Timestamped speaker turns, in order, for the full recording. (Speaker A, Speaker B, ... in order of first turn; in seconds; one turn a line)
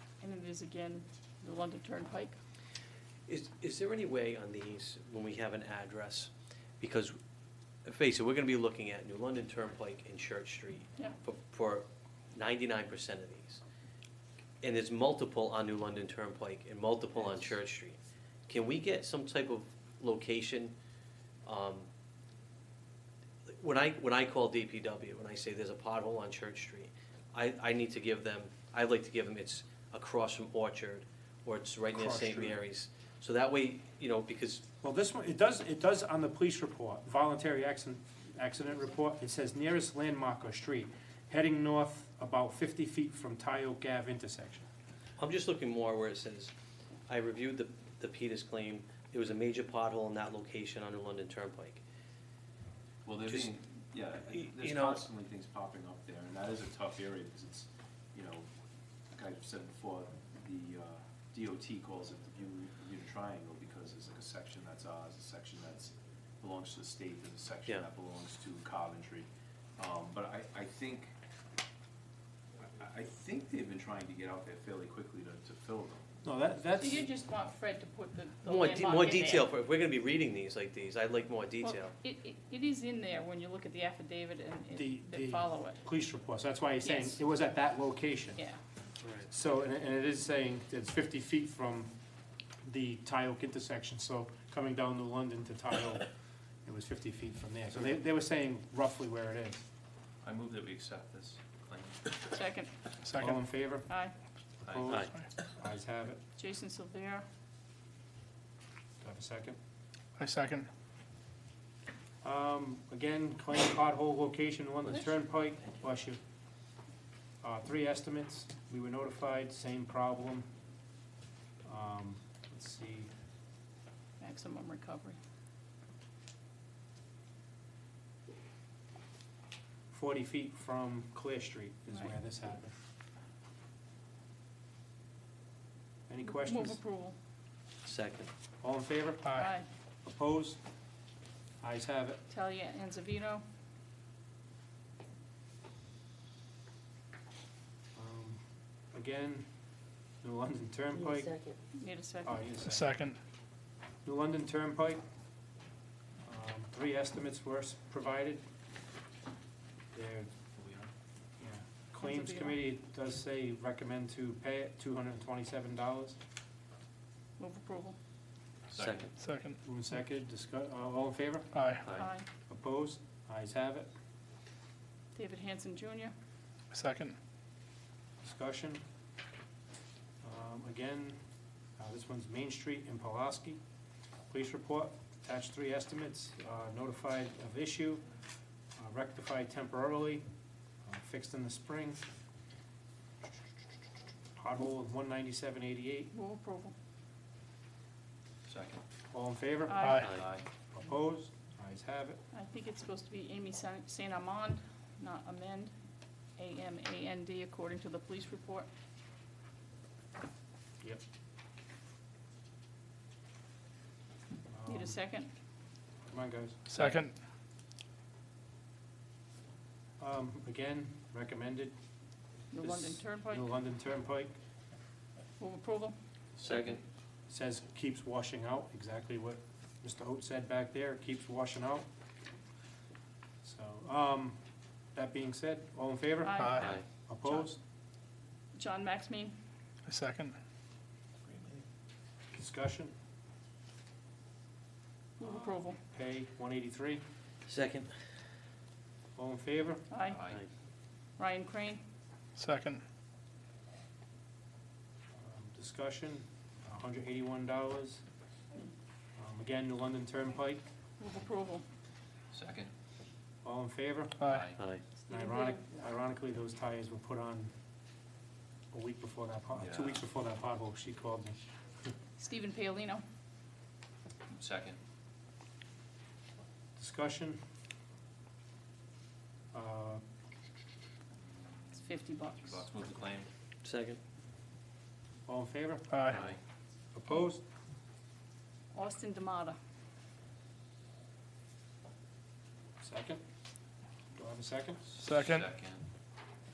Speaker A: 0.2-2.4
Speaker B: 3.3-7.2
Speaker B: 7.8-13.6
Speaker B: 14.6-18.0
Speaker B: 18.5-20.8
Speaker B: 21.4-21.9
Speaker B: 23.5-34.6
Speaker C: 31.9-32.6
Speaker C: 34.8-44.7
Speaker B: 45.2-46.5
Speaker B: 47.1-51.8
Speaker D: 53.0-58.5
Speaker B: 54.4-55.0
Speaker D: 59.1-71.1
Speaker D: 72.6-76.1
Speaker C: 76.2-77.1
Speaker A: 76.8-79.5
Speaker B: 78.4-82.0
Speaker A: 81.6-85.8
Speaker C: 84.8-88.4
Speaker A: 86.8-87.2
Speaker B: 89.0-89.3
Speaker C: 89.3-91.9
Speaker C: 92.6-96.1
Speaker C: 96.7-99.6
Speaker D: 100.2-102.2
Speaker A: 102.3-102.7
Speaker E: 103.0-103.5
Speaker C: 103.2-103.9
Speaker A: 103.9-104.1
Speaker C: 104.6-106.2
Speaker D: 104.7-105.1
Speaker B: 104.9-105.1
Speaker A: 106.4-107.2
Speaker C: 109.0-109.6
Speaker E: 110.2-110.7
Speaker C: 112.2-116.2
Speaker C: 117.4-120.5
Speaker C: 121.6-123.1
Speaker A: 124.2-125.2
Speaker C: 129.9-132.8
Speaker C: 136.1-136.8
Speaker A: 136.3-137.2
Speaker B: 137.8-138.3
Speaker C: 138.6-139.5
Speaker E: 139.2-139.5
Speaker A: 139.3-139.7
Speaker C: 140.0-140.6
Speaker C: 141.6-142.2
Speaker A: 142.3-143.4
Speaker C: 147.9-149.5
Speaker C: 150.2-151.4
Speaker B: 151.1-151.5
Speaker A: 151.7-152.4
Speaker C: 152.2-152.9
Speaker E: 152.6-153.2
Speaker C: 154.0-155.0
Speaker C: 156.2-158.4
Speaker C: 159.9-160.3
Speaker D: 160.6-160.9
Speaker C: 161.4-166.2
Speaker A: 162.0-162.6
Speaker A: 167.4-168.0
Speaker D: 168.7-169.1
Speaker B: 168.8-169.1
Speaker E: 169.2-169.6
Speaker C: 169.6-173.9
Speaker E: 171.5-171.9
Speaker A: 172.0-172.3
Speaker A: 175.2-176.1
Speaker E: 176.7-177.2
Speaker C: 178.2-178.8
Speaker C: 180.2-181.2
Speaker C: 181.8-183.6
Speaker C: 184.3-188.0
Speaker C: 188.8-190.3
Speaker C: 190.8-192.0
Speaker C: 194.4-196.1
Speaker A: 196.1-196.7
Speaker D: 198.5-198.8
Speaker C: 199.1-200.2
Speaker A: 199.7-200.1
Speaker E: 199.8-200.1
Speaker D: 200.1-200.4
Speaker C: 200.7-202.2
Speaker A: 202.3-205.7
Speaker A: 206.4-208.7
Speaker C: 214.5-215.0
Speaker A: 214.7-215.3
Speaker C: 216.1-216.6
Speaker E: 216.7-217.2
Speaker C: 220.0-221.8
Speaker A: 222.5-223.4
Speaker C: 222.6-224.3
Speaker A: 225.4-226.0
Speaker D: 226.4-226.8
Speaker B: 226.4-226.8
Speaker C: 227.3-231.9
Speaker C: 233.4-234.4
Speaker C: 234.9-237.6
Speaker A: 236.2-237.5
Speaker E: 236.4-236.7
Speaker B: 236.6-236.8
Speaker A: 238.6-239.3
Speaker E: 239.9-240.4
Speaker D: 241.3-241.6
Speaker C: 242.3-242.9
Speaker A: 245.2-245.8
Speaker C: 245.3-247.0
Speaker B: 247.5-247.9
Speaker C: 249.2-249.9
Speaker A: 249.9-250.3
Speaker D: 250.1-250.4
Speaker A: 251.2-251.8
Speaker E: 252.4-252.8
Speaker C: 255.2-258.0
Speaker C: 259.2-260.6
Speaker A: 261.0-261.6
Speaker D: 262.3-262.7
Speaker C: 263.4-264.3
Speaker D: 264.3-264.6
Speaker B: 264.6-264.8
Speaker C: 265.1-267.5
Speaker A: 265.1-265.6
Speaker C: 268.7-271.4
Speaker D: 269.6-270.0
Speaker A: 272.2-273.0
Speaker D: 274.3-274.8
Speaker C: 276.8-277.4
Speaker C: 279.5-280.0
Speaker D: 281.4-283.3
Speaker A: 281.8-282.6
Speaker B: 283.6-284.0
Speaker C: 285.3-286.3
Speaker E: 285.9-286.2
Speaker D: 286.1-286.4
Speaker C: 286.9-287.4
Speaker A: 288.7-289.6
Speaker C: 292.8-293.2
Speaker C: 294.1-294.8
Speaker D: 294.9-295.9
Speaker E: 295.0-295.5